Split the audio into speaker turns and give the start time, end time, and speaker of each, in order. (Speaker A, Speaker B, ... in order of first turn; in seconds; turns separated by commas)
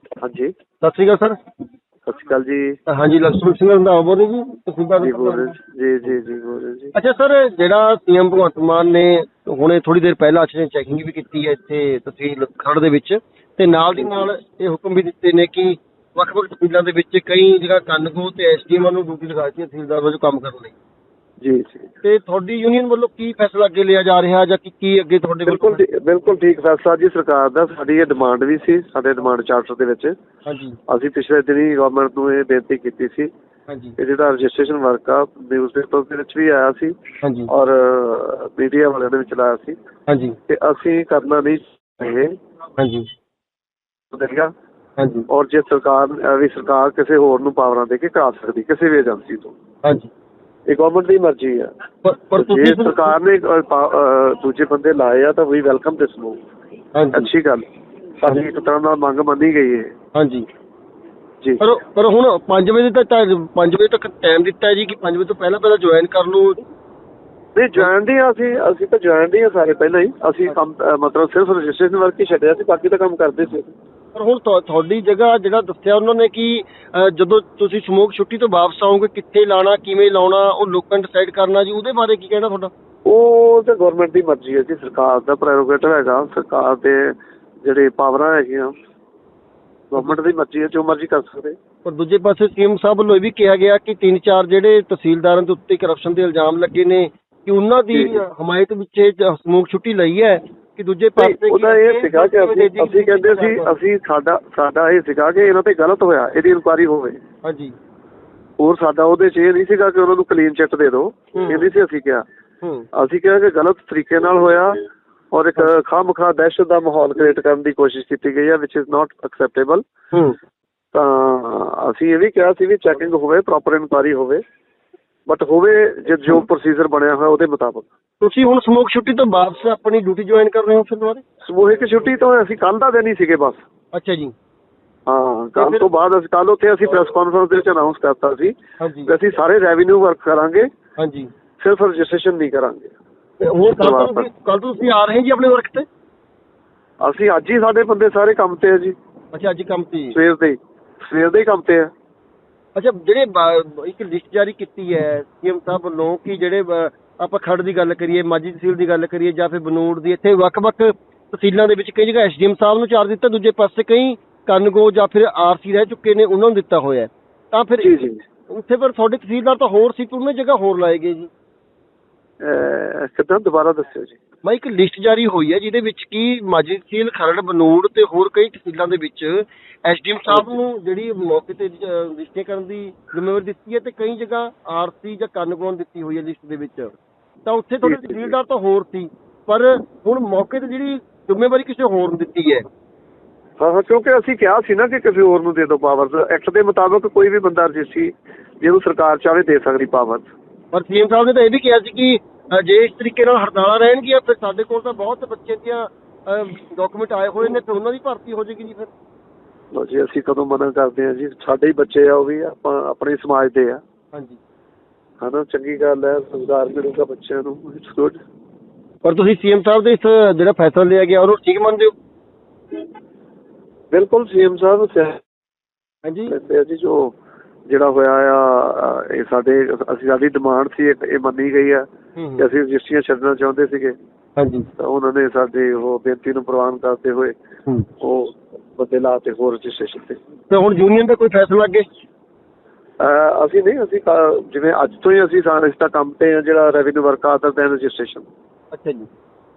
Speaker A: 0.2-0.5, Speaker B: 0.8-1.4, Speaker A: 2.0-2.8, Speaker B: 2.9-5.5, Speaker A: 5.0-6.9, Speaker B: 6.9-20.7, Speaker A: 21.4-21.9, Speaker B: 22.0-25.8, Speaker A: 25.5-30.1, Speaker B: 30.4-30.8, Speaker A: 30.9-33.3, Speaker B: 33.7-34.0, Speaker A: 34.0-37.0, Speaker B: 37.2-37.5, Speaker A: 37.5-39.8, Speaker B: 40.1-40.4, Speaker A: 40.5-42.3, Speaker B: 42.8-43.1, Speaker A: 44.1-44.5, Speaker B: 45.0-45.3, Speaker A: 45.3-49.5, Speaker B: 49.8-50.1, Speaker A: 50.7-51.7, Speaker B: 52.0-53.1, Speaker A: 52.3-56.4, Speaker B: 57.0-57.3, Speaker A: 57.1-57.6, Speaker A: 58.2-59.9, Speaker B: 60.1-60.5, Speaker B: 61.6-66.6, Speaker A: 67.5-73.7, Speaker B: 74.1-82.7, Speaker A: 83.0-88.8, Speaker A: 89.9-91.5, Speaker B: 91.8-103.8, Speaker A: 97.9-98.2, Speaker A: 101.2-107.2, Speaker B: 107.4-107.7, Speaker A: 108.6-112.2, Speaker B: 111.3-111.7, Speaker B: 112.6-112.9, Speaker A: 112.9-114.8, Speaker A: 115.3-119.8, Speaker B: 120.1-120.4, Speaker A: 120.9-124.4, Speaker A: 125.3-127.9, Speaker B: 128.2-131.2, Speaker A: 131.4-133.6, Speaker B: 133.9-134.3, Speaker A: 135.1-140.7, Speaker B: 135.6-135.9, Speaker B: 138.8-139.1, Speaker B: 141.0-141.3, Speaker A: 141.6-142.9, Speaker B: 143.4-145.8, Speaker A: 143.8-144.3, Speaker A: 147.0-148.9, Speaker B: 149.3-150.2, Speaker A: 150.1-151.9, Speaker B: 152.8-167.9, Speaker A: 167.8-168.2, Speaker B: 168.5-171.3, Speaker A: 172.4-174.2, Speaker B: 174.4-186.9, Speaker A: 180.3-180.6, Speaker B: 187.4-192.6, Speaker A: 187.8-188.3, Speaker A: 193.6-200.3, Speaker B: 200.7-208.9, Speaker A: 209.7-213.8, Speaker B: 214.1-214.4, Speaker A: 215.2-218.2, Speaker B: 219.0-221.9, Speaker A: 223.9-225.2, Speaker B: 226.0-226.3, Speaker A: 226.3-227.1, Speaker A: 227.7-231.8, Speaker B: 232.2-232.4, Speaker A: 232.4-233.9, Speaker B: 234.4-234.7, Speaker A: 234.8-237.3, Speaker A: 238.0-240.2, Speaker B: 240.5-241.9, Speaker A: 243.0-248.3, Speaker B: 248.7-249.1